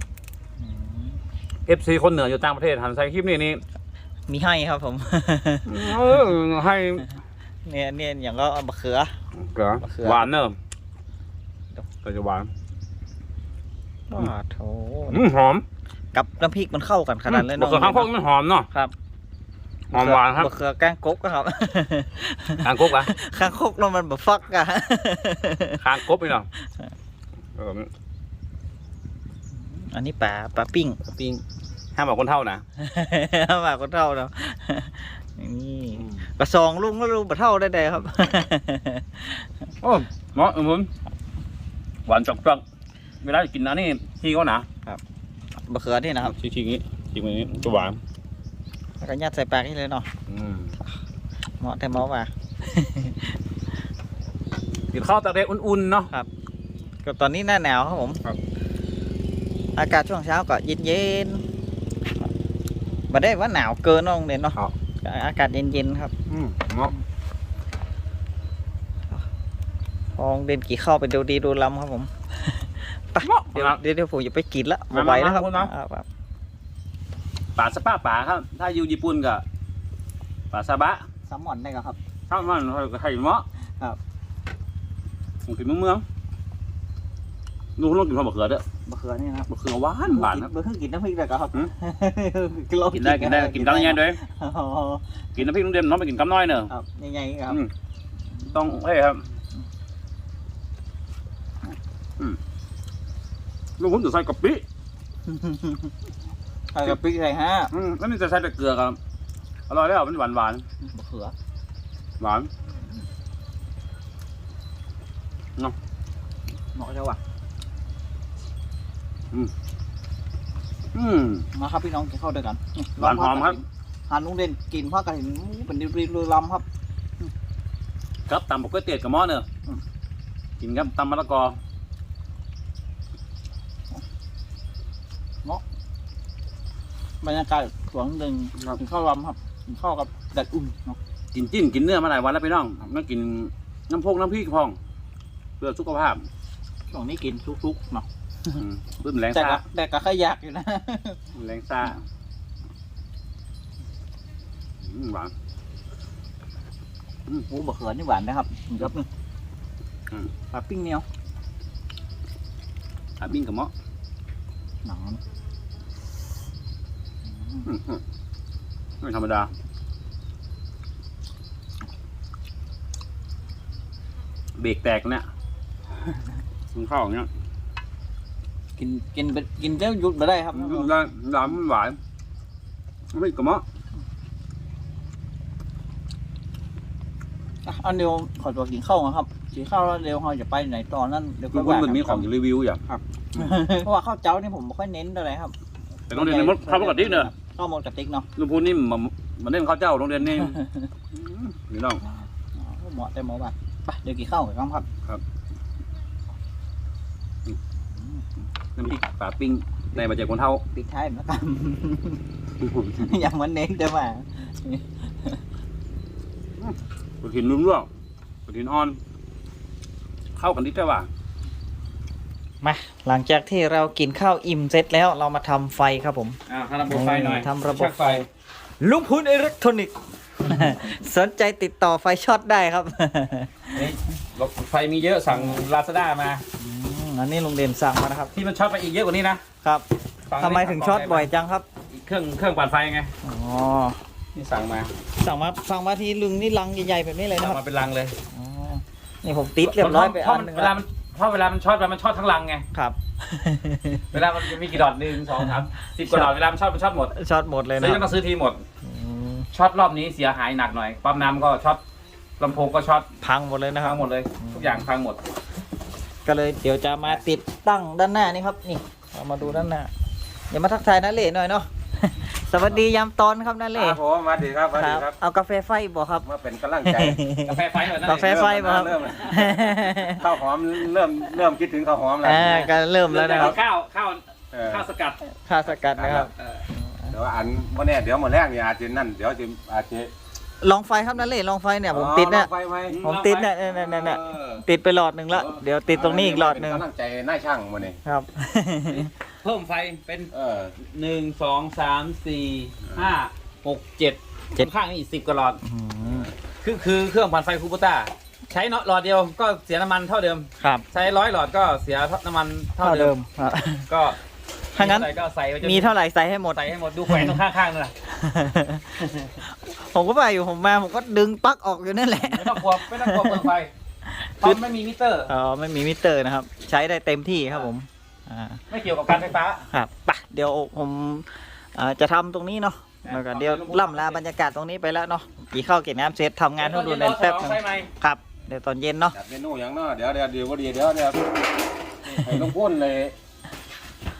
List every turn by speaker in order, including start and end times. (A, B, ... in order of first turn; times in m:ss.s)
0:00.6-0:01.2 A
0:01.7-0:03.6 B
0:04.3-0:06.2 A
0:05.6-0:07.1 B
0:07.6-0:09.1 A
0:09.4-0:10.5 B
0:09.8-0:10.3 A
0:12.0-0:12.5 B
0:14.1-0:15.2 A
0:15.1-0:15.6 B
0:16.1-0:18.1 A
0:17.3-0:18.7 B
0:19.9-0:20.5 B
0:19.9-0:25.8 A
0:22.6-0:23.1 B
0:25.8-0:26.5 B
0:27.6-0:27.9 B
0:29.6-0:31.1 A
0:31.1-0:31.4 B
0:32.0-0:32.6 B
0:32.8-0:39.5 A
0:39.8-0:40.9 B
0:42.1-0:42.6 B
0:43.2-0:44.7 B
0:45.7-0:46.3 A
0:46.2-0:48.0 B
0:47.4-0:47.7 A
0:49.0-0:50.1 A
0:50.3-0:50.7 B
0:51.6-0:53.3 A
0:54.9-0:56.1 B
0:57.0-0:58.2 A
0:59.7-1:01.4 A
1:03.1-1:06.1 A
1:06.3-1:06.9 B
1:10.1-1:16.0 A
1:13.2-1:13.8 B
1:14.9-1:15.7 B
1:17.6-1:19.4 B
1:20.5-1:21.0 B
1:21.3-1:22.0 A
1:22.3-1:23.4 B
1:23.6-1:24.0 A
1:25.4-1:26.0 B
1:27.8-1:28.6 B
1:28.9-1:29.5 A
1:29.5-1:30.5 B
1:30.0-1:35.4 A
1:32.9-1:34.2 B
1:35.4-1:36.7 B
1:36.7-1:37.6 A
1:38.5-1:39.2 B
1:43.8-1:44.6 B
1:45.2-1:45.9 A
1:46.7-1:47.7 A
1:47.7-1:49.0 B
1:49.7-1:50.6 B
1:50.8-1:51.3 A
1:52.2-1:52.5 B
1:56.7-1:57.2 A
2:00.9-2:01.5 B
2:01.5-2:06.6 A
2:03.0-2:03.6 B
2:08.3-2:09.4 B
2:10.6-2:11.6 B
2:17.2-2:21.0 A
2:21.3-2:24.8 B
2:25.6-2:26.2 B
2:26.9-2:28.6 A
2:28.6-2:29.6 B
2:29.3-2:31.3 A
2:31.3-2:32.0 B
2:34.8-2:35.3 B
2:37.5-2:39.1 A
2:40.5-2:41.0 A
2:43.2-2:43.7 B
2:44.8-2:45.2 A
2:47.3-2:47.7 A
2:47.7-2:48.0 B
2:49.0-2:49.5 B
2:54.6-2:55.2 B
2:56.7-2:57.3 B
2:58.8-3:00.9 A
3:00.5-3:02.0 B
3:03.1-3:03.6 B
3:07.6-3:12.2 A
3:11.5-3:12.8 B
3:12.9-3:15.5 A
3:16.1-3:18.3 A
3:16.1-3:17.3 B
3:18.4-3:20.6 B
3:20.2-3:20.9 A
3:21.1-3:22.0 B
3:22.6-3:24.9 A
3:28.0-3:28.2 A
3:28.8-3:30.6 B
3:30.7-3:32.2 A
3:32.6-3:33.0 B
3:32.7-3:35.4 A
3:36.6-3:37.9 B
3:38.5-3:39.0 B
3:40.4-3:41.1 B
3:42.6-3:48.2 A
3:46.5-3:48.2 B
3:48.8-3:53.9 A
3:53.7-3:56.4 B
3:55.3-3:55.6 A
3:56.6-3:58.3 A
3:58.3-3:59.4 B
4:00.3-4:01.3 B
4:00.4-4:01.6 A
4:01.9-4:03.1 B
4:03.2-4:04.0 A
4:04.3-4:04.9 B
4:05.1-4:07.6 A
4:07.3-4:08.2 B
4:08.3-4:10.7 A
4:09.6-4:12.6 B
4:12.7-4:14.2 A
4:14.1-4:17.1 B
4:16.0-4:16.3 A
4:17.1-4:18.1 A
4:17.8-4:18.6 B
4:18.8-4:19.5 A
4:19.5-4:21.8 B
4:22.4-4:23.1 B
4:23.2-4:24.9 A
4:23.8-4:25.2 B
4:26.2-4:29.9 A
4:29.4-4:29.7 B
4:30.5-4:34.0 A
4:33.7-4:35.2 C
4:34.7-4:36.3 A
4:36.2-4:37.2 C
4:36.8-4:40.3 A
4:37.4-4:38.5 B
4:38.0-4:42.7 C
4:39.0-4:39.5 B
4:42.2-4:43.6 A
4:43.1-4:45.2 B
4:44.5-4:44.9 C
4:45.3-4:47.1 A
4:46.0-4:46.3 C
4:46.4-4:46.6 B
4:47.1-4:50.1 C
4:50.6-4:52.5 A
4:51.9-4:53.0 C
4:52.9-4:53.5 B
4:53.0-4:56.8 A
4:53.7-4:54.6 C
4:55.3-4:58.0 C
4:58.0-4:59.1 A
4:58.9-5:05.6 B
5:00.3-5:00.7 C
5:05.6-5:06.3 A
5:06.6-5:13.1 B
5:10.6-5:10.8 A
5:12.8-5:13.9 A
5:13.9-5:14.2 B
5:14.7-5:15.9 B
5:14.7-5:15.1 A
5:15.6-5:17.4 A
5:16.5-5:17.9 B
5:18.0-5:23.5 A
5:22.2-5:23.7 B
5:24.0-5:24.6 A
5:24.4-5:25.3 B
5:25.3-5:28.6 A
5:28.7-5:29.7 B
5:29.7-5:39.2 A
5:33.0-5:34.2 B
5:36.6-5:37.9 B
5:39.1-5:41.4 C
5:42.0-5:43.1 C